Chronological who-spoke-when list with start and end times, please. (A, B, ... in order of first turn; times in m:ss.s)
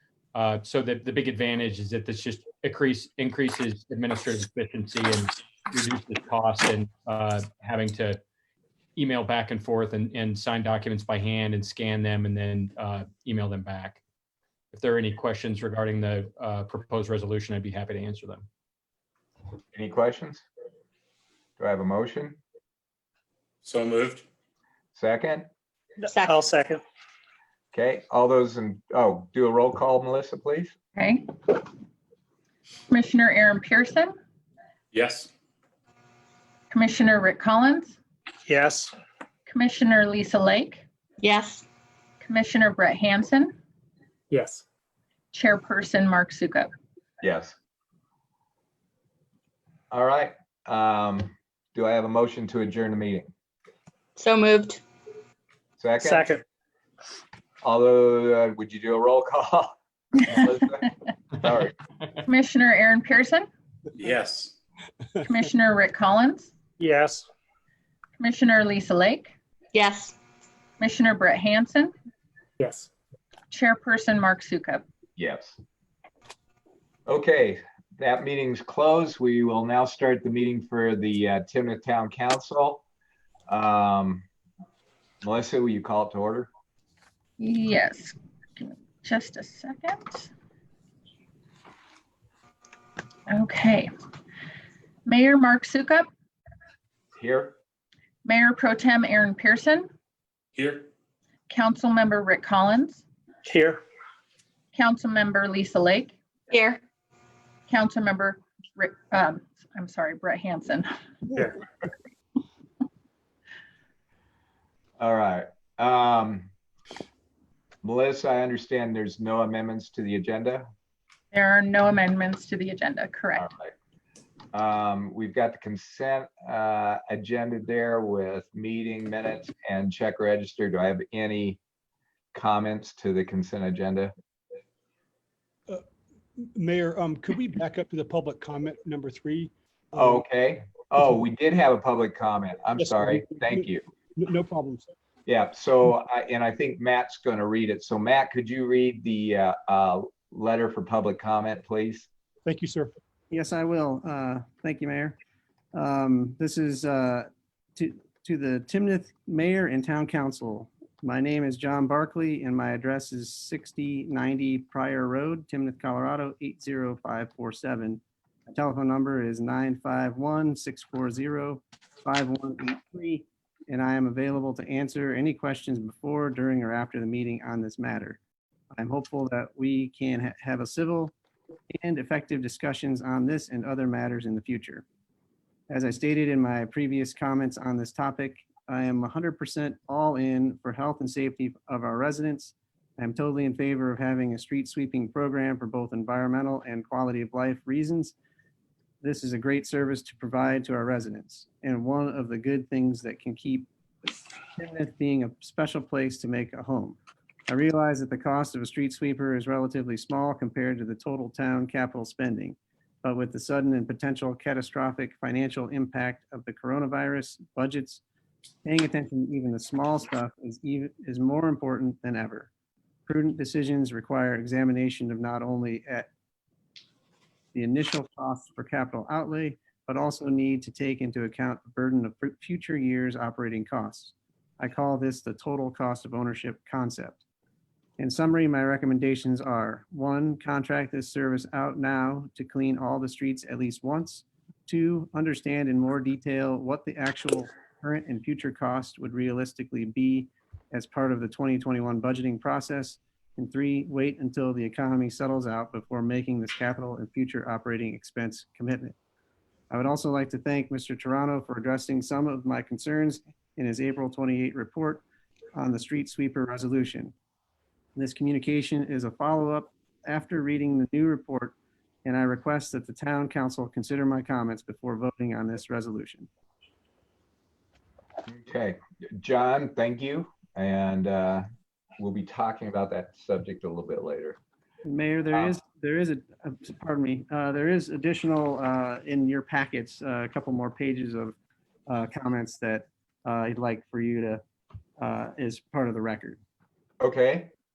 0:00.4-0:08.2 A
0:09.0-0:14.0 A
0:14.7-0:18.5 A
0:19.7-0:20.4 B
0:21.6-0:22.4 B
0:23.6-0:24.2 C
0:25.0-0:25.5 B
0:26.1-0:26.8 D
0:26.1-0:26.4 E
0:27.7-0:30.7 B
0:31.0-0:31.3 F
0:32.9-0:34.1 F
0:34.9-0:35.3 C
0:36.7-0:38.0 F
0:38.5-0:38.9 D
0:39.5-0:40.8 F
0:41.2-0:41.7 E
0:42.2-0:43.6 F
0:44.3-0:44.6 D
0:45.3-0:46.7 F
0:47.2-0:47.6 B
0:49.9-0:53.3 B
0:54.2-0:54.8 E
0:55.8-0:56.3 B
0:56.0-0:56.4 D
0:57.6-1:01.7 B
1:02.3-1:03.5 F
1:04.0-1:04.5 C
1:05.2-1:06.5 F
1:06.8-1:07.3 D
1:08.2-1:09.4 F
1:09.7-1:10.2 E
1:10.8-1:11.9 F
1:12.6-1:12.9 D
1:13.5-1:14.8 F
1:15.2-1:15.6 B
1:17.1-1:22.8 B
1:23.5-1:24.3 B
1:25.2-1:26.5 B
1:27.4-1:30.3 F
1:33.3-1:33.9 F
1:35.1-1:36.1 F
1:37.2-1:37.6 B
1:38.2-1:39.9 F
1:40.6-1:40.9 C
1:41.5-1:43.0 F
1:43.4-1:43.8 D
1:44.8-1:46.2 F
1:46.5-1:46.8 E
1:47.7-1:51.4 F
1:55.0-1:56.5 B
1:57.8-2:00.7 B
2:01.3-2:03.5 F
2:03.4-2:03.7 B
2:04.5-2:11.6 B
2:12.3-2:14.1 B
2:16.4-2:20.2 G
2:20.0-2:23.8 B
2:22.8-2:24.9 G
2:25.3-2:32.1 B
2:32.4-2:32.9 G
2:33.3-2:35.2 H
2:35.7-2:58.2 H
2:58.7-3:01.1 H
3:01.7-3:04.8 H
3:05.7-3:18.2 H
3:19.0-3:38.0 H
3:38.6-3:42.5 H
3:43.1-3:46.1 H
3:47.5-3:57.2 H
3:58.0-4:19.0 H
4:19.7-4:25.0 H
4:25.6-4:27.1 H
4:28.0-4:36.3 H
4:38.3-4:41.4 B
4:42.0-4:44.4 B
4:44.8-4:51.4 H
4:51.9-4:54.4 H
4:55.0-4:56.4 H
4:57.0-4:57.5 B